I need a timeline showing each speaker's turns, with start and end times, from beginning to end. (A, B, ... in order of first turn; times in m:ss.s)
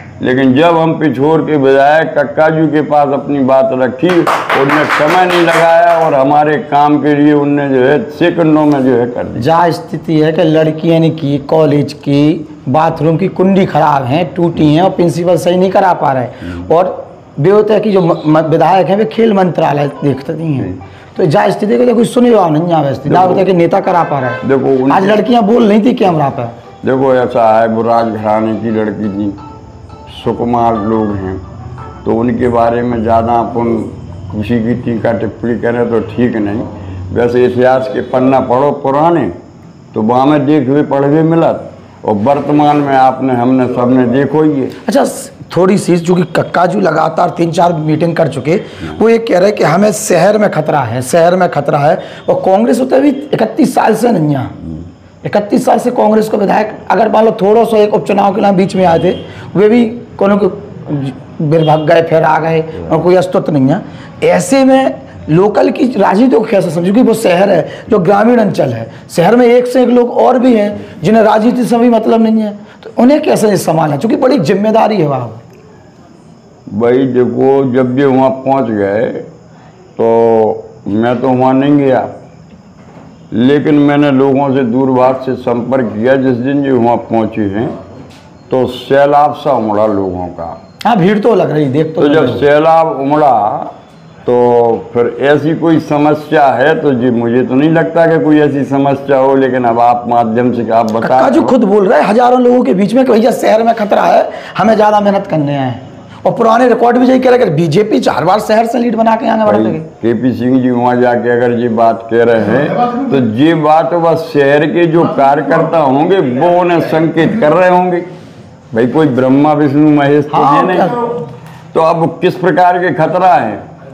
0:00.2-0:09.5 A
0:09.4-0:26.6 B
0:23.1-0:23.5 A
0:24.4-0:25.2 A
0:26.8-0:29.4 A
0:30.1-0:31.4 A
0:32.0-0:39.3 A
0:39.9-0:44.7 A
0:44.8-0:54.6 B
0:55.2-1:15.4 B
1:16.7-1:19.3 A
1:20.0-1:22.1 A
1:23.3-1:27.8 A
1:28.5-1:30.6 A
1:30.8-1:32.4 B
1:32.0-1:33.7 A
1:34.3-1:41.5 A
1:41.0-1:49.9 B
1:49.5-1:58.1 A
1:58.7-2:01.0 A
2:00.3-2:01.2 B
2:01.7-2:03.6 A